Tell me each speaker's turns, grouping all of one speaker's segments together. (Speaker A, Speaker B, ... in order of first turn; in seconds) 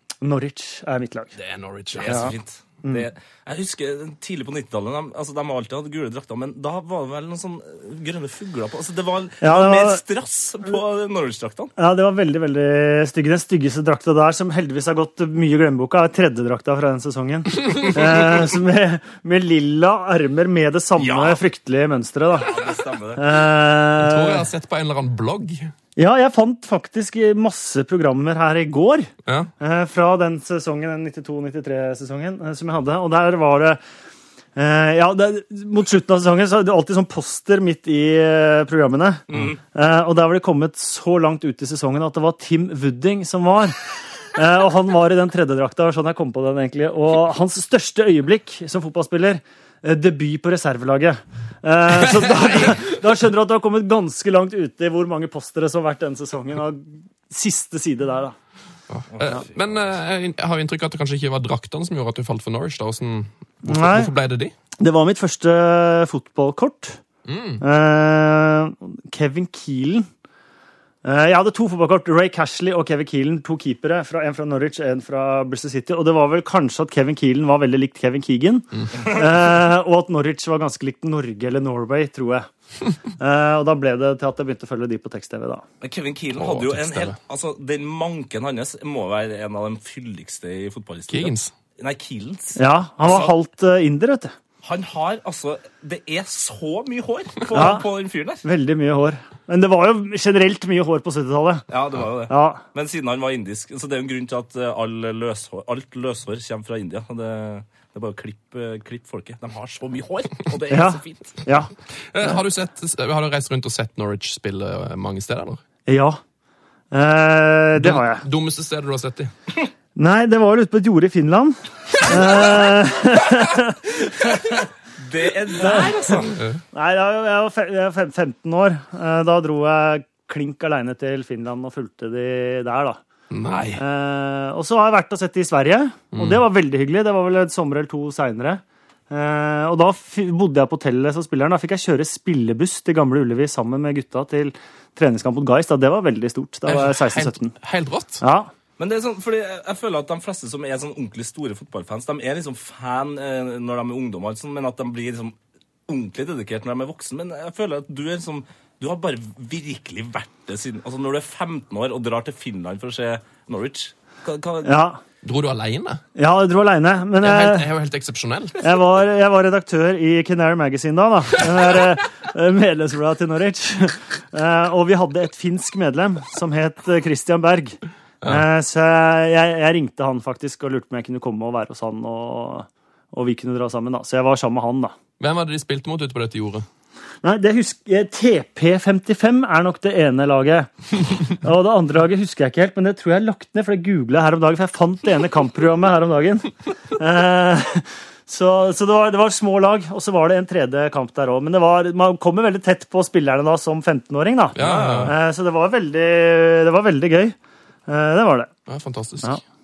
Speaker A: 0.2-1.3, 9.4-10.0, 11.8-22.6, 23.2-24.5, 26.0-33.8, 34.5-43.8, 44.3-58.4, 63.6-64.1, 64.8-67.0, 67.6-70.1, 71.0-82.5, 83.2-85.7, 92.6-94.3, 97.5-97.9, 98.4-101.7, 102.3-102.6, 110.7-111.7, 115.9-116.2, 116.9-118.2, 120.0-124.6, 125.6-133.0, 133.8-147.6, 148.2-148.5, 164.6-165.0, 166.2-167.7, 168.6-184.9, 187.2-190.7, 191.2-207.4, 207.9-208.5
Speaker B: 1.4-2.3, 24.0-25.7, 29.3-29.5, 52.0-52.8, 58.9-64.5, 67.3-67.6, 86.4-87.2, 91.1-91.5, 112.1-115.6, 117.8-119.3, 133.3-133.8, 136.1-136.4, 146.7-148.2, 165.2-166.0, 167.2-168.7, 185.2-186.7, 204.6-205.2, 208.7-209.4
Speaker C: 1.9-11.7, 21.0-21.4, 22.3-23.3, 39.3-39.6, 59.2-59.8, 85.8-93.3, 94.6-98.4, 101.7-111.4, 125.0-126.4, 148.8-155.4, 155.9-164.7, 204.6-205.2